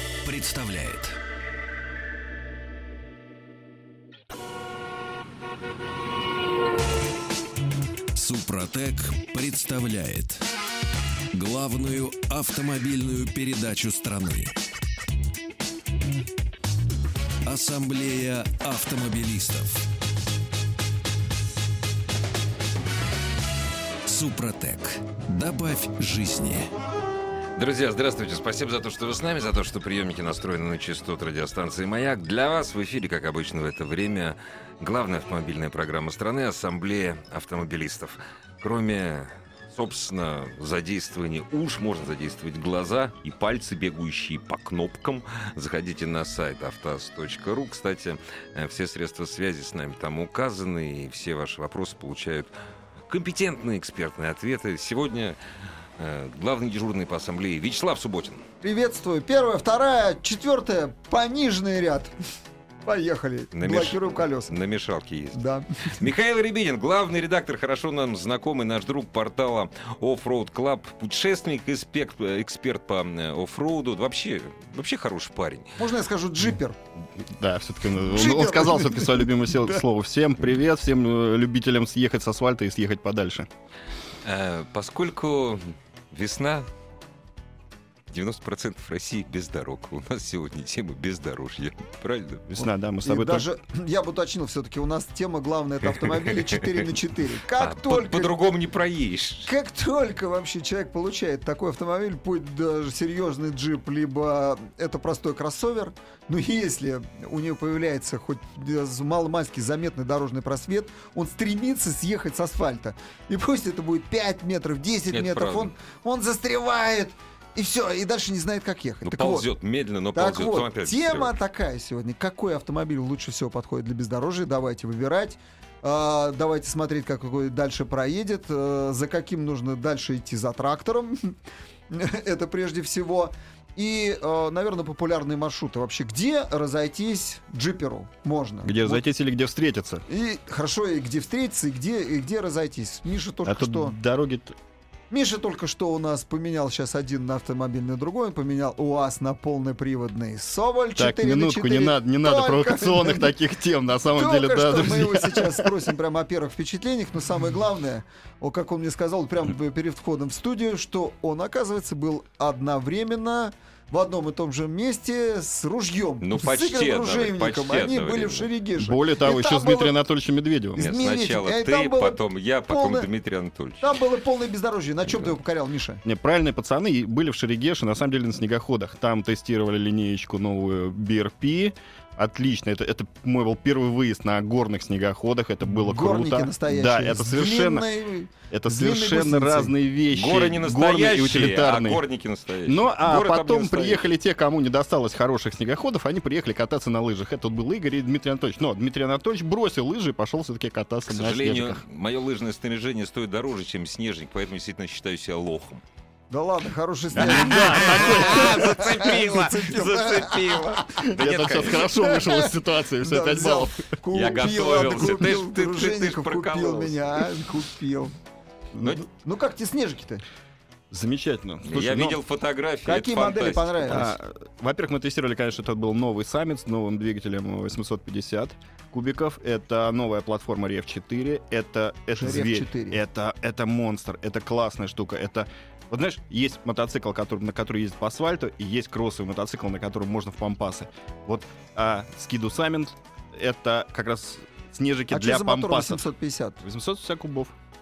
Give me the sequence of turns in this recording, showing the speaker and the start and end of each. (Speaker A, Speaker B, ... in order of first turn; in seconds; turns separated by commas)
Speaker A: 0.2-1.2, Speaker A: 8.1-10.4, Speaker A: 11.3-14.5, Speaker A: 17.4-19.8, Speaker A: 24.1-26.7, Speaker B: 27.6-52.5, Speaker B: 53.1-55.4, Speaker B: 56.0-58.4, Speaker C: 58.6-62.1, Speaker C: 62.8-64.5, Speaker B: 63.5-75.8, Speaker C: 65.3-66.0, Speaker C: 75.8-76.8, Speaker D: 77.2-83.5, Speaker C: 78.1-79.8, Speaker B: 84.2-86.7, Speaker B: 88.1-92.5, Speaker D: 92.5-93.5, Speaker C: 92.6-98.4, Speaker B: 95.8-96.9, Speaker B: 97.5-99.5, Speaker C: 99.4-119.5, Speaker B: 115.1-115.7, Speaker B: 119.0-121.3, Speaker C: 120.1-131.3, Speaker C: 131.9-139.0, Speaker D: 138.6-140.0, Speaker C: 140.1-143.9, Speaker D: 143.4-144.6, Speaker C: 145.1-153.3, Speaker D: 150.9-155.8, Speaker C: 154.1-169.9, Speaker B: 166.2-168.5, Speaker D: 168.8-170.9, Speaker C: 170.8-173.1, Speaker B: 170.8-174.0, Speaker C: 173.8-176.0, Speaker B: 175.1-175.3, Speaker D: 176.0-187.9, Speaker C: 185.7-189.7, Speaker D: 188.5-192.0, Speaker B: 190.1-194.1, Speaker D: 192.7-201.8, Speaker B: 201.1-205.8, Speaker C: 206.3-211.1, Speaker D: 207.1-208.8, Speaker B: 207.2-211.9, Speaker D: 211.0-213.8, Speaker C: 211.7-218.1, Speaker B: 214.1-217.4, Speaker C: 218.7-220.2, Speaker D: 220.9-222.2, Speaker B: 221.6-224.1, Speaker C: 222.8-224.2, Speaker D: 223.8-246.1, Speaker C: 232.1-233.0, Speaker C: 245.1-246.6, Speaker D: 246.6-247.5